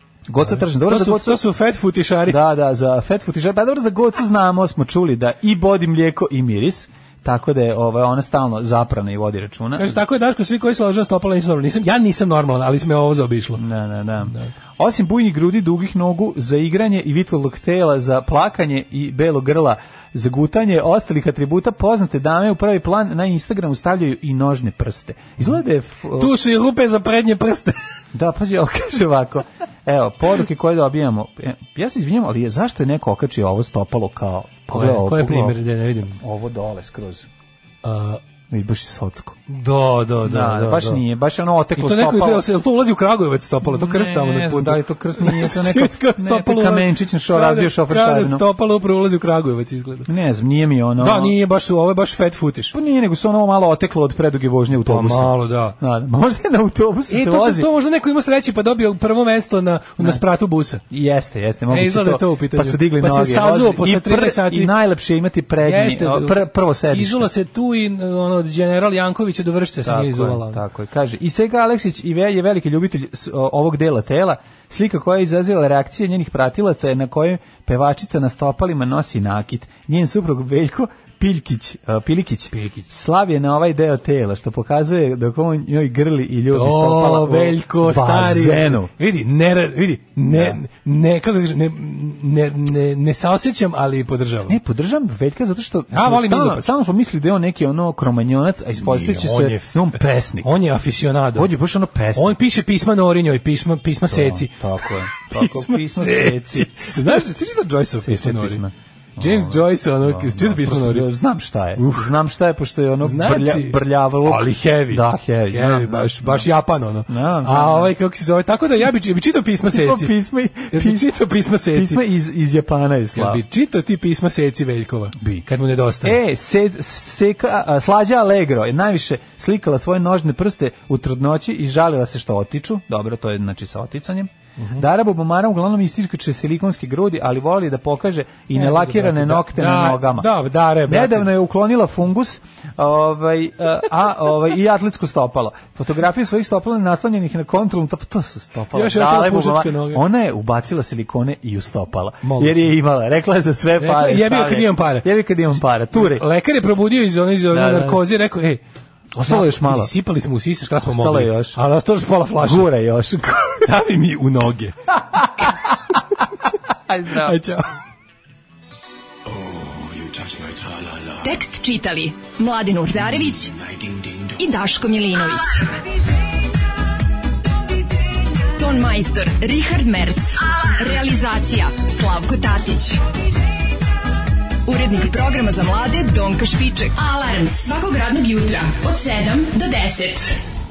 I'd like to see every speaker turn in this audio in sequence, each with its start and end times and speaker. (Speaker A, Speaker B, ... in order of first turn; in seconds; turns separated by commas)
Speaker A: 0.3-1.4, Speaker B: 0.4-2.4, Speaker A: 2.2-10.0, Speaker B: 9.7-13.6, Speaker A: 13.6-26.3, Speaker B: 14.3-14.5, Speaker B: 26.2-27.8, Speaker A: 28.1-35.6, Speaker B: 34.7-36.2, Speaker A: 36.2-37.3, Speaker B: 37.8-38.2, Speaker A: 38.5-39.4, Speaker B: 39.5-41.0, Speaker A: 40.2-42.5, Speaker B: 41.8-50.1, Speaker A: 43.6-48.5, Speaker A: 50.1-51.4, Speaker B: 51.0-52.7, Speaker A: 52.7-57.7, Speaker B: 54.8-55.8, Speaker B: 57.1-60.8, Speaker A: 60.9-67.3, Speaker B: 61.7-64.7, Speaker B: 65.6-70.6, Speaker A: 69.8-88.9, Speaker B: 82.5-82.9, Speaker B: 86.5-94.6, Speaker A: 90.3-90.6, Speaker A: 94.5-100.5, Speaker B: 95.9-96.7, Speaker B: 98.8-101.5, Speaker A: 101.3-102.4, Speaker B: 102.1-104.6, Speaker A: 104.0-107.2, Speaker B: 105.2-108.6, Speaker A: 108.0-116.5, Speaker B: 109.2-111.1, Speaker B: 111.8-112.1, Speaker B: 113.0-120.1, Speaker A: 117.1-117.9, Speaker A: 119.6-123.4, Speaker B: 120.7-122.0, Speaker B: 123.1-126.2, Speaker A: 125.2-125.5, Speaker A: 126.0-140.3, Speaker B: 134.6-134.8, Speaker B: 138.5-141.3, Speaker A: 140.8-156.2, Speaker B: 148.7-150.0, Speaker B: 152.2-152.7, Speaker B: 153.8-155.1, Speaker B: 155.9-158.6, Speaker A: 157.5-158.0, Speaker A: 159.1-159.9, Speaker B: 159.2-162.7, Speaker A: 160.8-161.6, Speaker A: 162.4-163.7, Speaker B: 163.6-165.6, Speaker A: 165.1-165.5, Speaker A: 166.9-167.4, Speaker B: 167.2-167.7, Speaker B: 169.3-171.1, Speaker C: 171.2-173.5, Speaker B: 173.7-174.3, Speaker C: 174.4-175.8, Speaker C: 178.6-183.0, Speaker C: 184.7-190.4